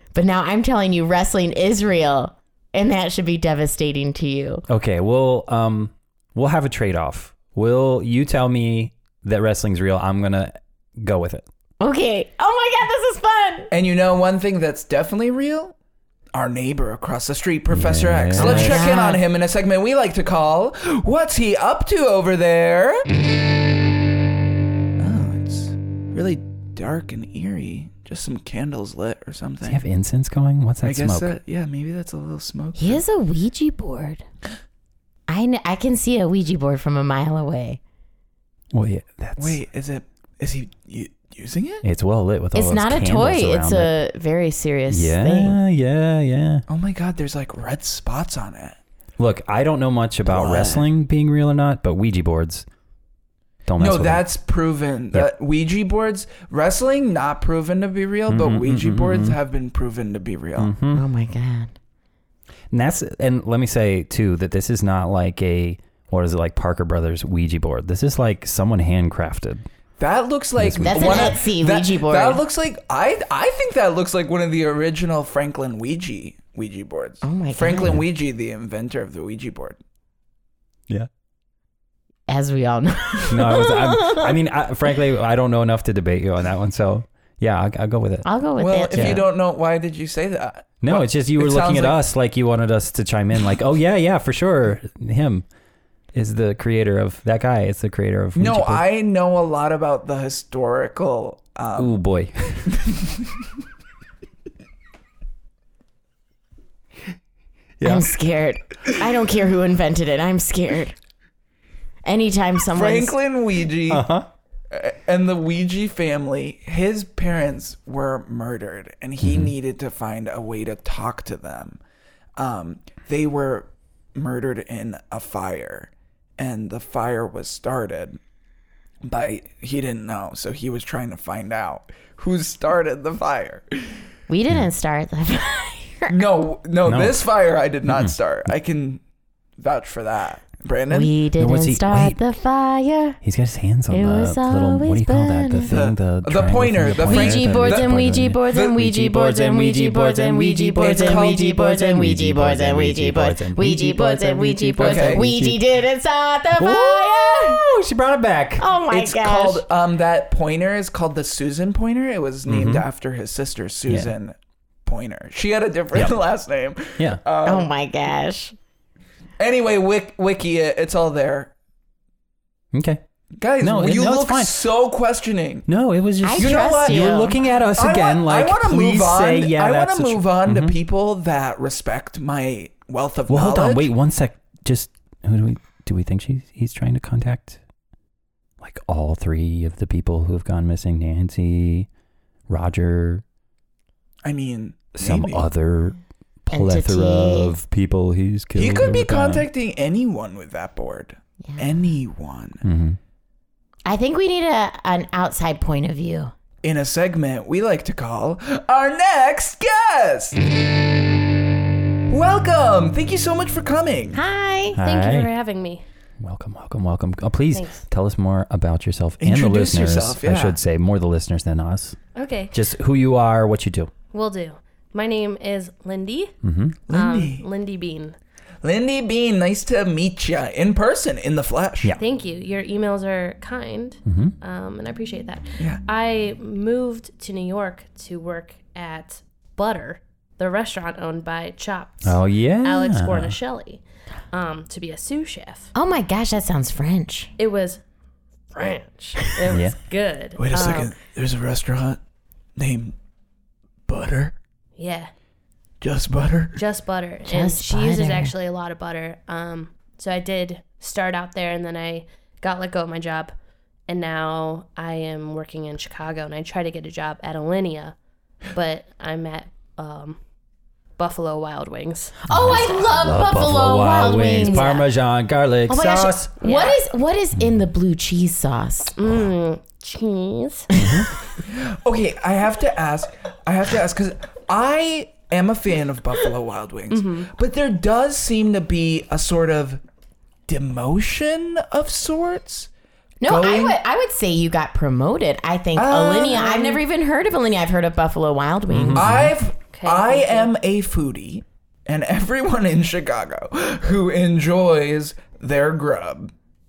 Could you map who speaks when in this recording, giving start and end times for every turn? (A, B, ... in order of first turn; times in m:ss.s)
0:00.1-0:04.6 A
0:04.7-0:11.4 B
0:11.8-0:13.7 A
0:13.7-0:15.7 C
0:16.3-0:23.1 C
0:17.7-0:18.9 B
0:18.3-0:19.2 A
0:25.0-0:29.8 C
0:29.6-0:31.3 B
0:30.8-0:33.0 C
0:32.8-0:34.2 A
0:35.3-0:37.8 A
0:38.7-0:39.6 B
0:39.4-0:41.8 C
0:41.8-0:43.9 B
0:42.5-0:45.6 A
0:44.9-0:46.6 B
0:46.7-0:48.8 C
0:49.2-0:52.6 B
0:50.3-0:50.9 C
0:53.7-0:54.2 B
0:53.8-1:00.7 C
0:58.3-0:59.4 B
1:00.6-1:01.1 B
1:00.9-1:01.7 A
1:02.7-1:09.6 B
1:10.0-1:19.8 C
1:10.6-1:11.4 B
1:10.8-1:12.4 A
1:17.2-1:18.0 A
1:17.8-1:18.0 B
1:22.3-1:24.4 A
1:23.3-1:28.3 B
1:28.2-1:29.3 A
1:28.6-1:32.0 C
1:28.9-1:29.2 B
1:30.8-1:35.4 B
1:36.1-1:38.8 B
1:38.4-1:41.9 C
1:41.8-1:42.8 B
1:47.8-1:48.1 B
1:47.8-1:51.0 A
1:52.0-1:53.2 A
1:52.8-1:54.1 C
1:53.9-1:54.3 B
1:54.7-2:01.8 C
1:59.2-1:59.5 B
2:02.4-2:08.2 C
2:09.0-2:14.0 C
2:14.3-2:16.3 A
2:16.1-2:19.0 C
2:16.8-2:17.3 B
2:17.9-2:18.2 B
2:19.6-2:21.1 C
2:20.9-2:23.2 A
2:21.4-2:22.2 B
2:23.2-2:35.6 B
2:23.9-2:25.8 A
2:25.7-2:28.8 C
2:27.0-2:37.6 A
2:30.8-2:31.5 C
2:34.8-2:35.3 C
2:36.6-2:38.7 B
2:38.6-2:39.6 A
2:38.9-2:47.7 C
2:42.5-2:42.9 B
2:43.9-2:44.1 B
2:47.4-2:48.6 A
2:49.4-2:51.5 C
2:52.7-2:53.0 B
2:53.4-2:55.7 C
2:53.6-2:54.6 B
2:55.7-3:00.8 B
2:56.2-2:57.4 A
2:56.4-3:03.9 C
3:03.3-3:07.6 B
3:08.6-3:11.9 B
3:12.5-3:13.2 B
3:14.2-3:15.5 C
3:14.9-3:19.5 B
3:16.5-3:17.5 A
3:18.6-3:22.6 C
3:22.6-3:23.0 B
3:23.9-3:26.3 A
3:26.6-3:30.4 C
3:32.1-3:34.2 C
3:34.1-3:34.8 A
3:34.8-3:35.3 B
3:34.8-3:35.8 D
3:36.2-3:42.0 B
3:37.5-3:37.8 D
3:39.2-3:40.6 C
3:42.2-3:42.6 D
3:42.5-3:43.9 B
3:44.1-3:46.3 D
3:46.4-3:46.8 B
3:46.9-3:47.5 C
3:46.9-3:48.2 D
3:48.6-3:52.0 C
3:52.0-4:05.7 D
3:54.1-3:54.4 B
4:02.0-4:03.4 B
4:05.8-4:07.3 A
4:07.4-4:07.8 D
4:08.5-4:11.0 D
4:09.5-4:09.8 B
4:10.4-4:12.0 C
4:12.6-4:13.0 C
4:13.9-4:14.4 C
4:14.8-4:15.1 D
4:15.8-4:16.6 C
4:16.6-4:23.3 D
4:17.3-4:18.3 A
4:23.9-4:28.0 D
4:28.5-4:30.2 D
4:31.0-4:32.2 D
4:32.2-4:34.9 A
4:32.3-4:36.3 B
4:34.5-4:34.8 D
4:35.7-4:39.0 A
4:36.3-4:36.8 D
4:39.0-4:40.7 D
4:40.8-4:41.0 A
4:40.8-4:41.1 B
4:41.4-4:49.8 C
4:46.9-4:47.3 D
4:50.5-4:52.7 C
4:53.2-4:59.1 A
4:53.2-4:53.8 C
4:55.8-4:56.8 C
4:58.7-4:59.3 B
4:59.0-5:06.3 C
4:59.7-5:00.5 D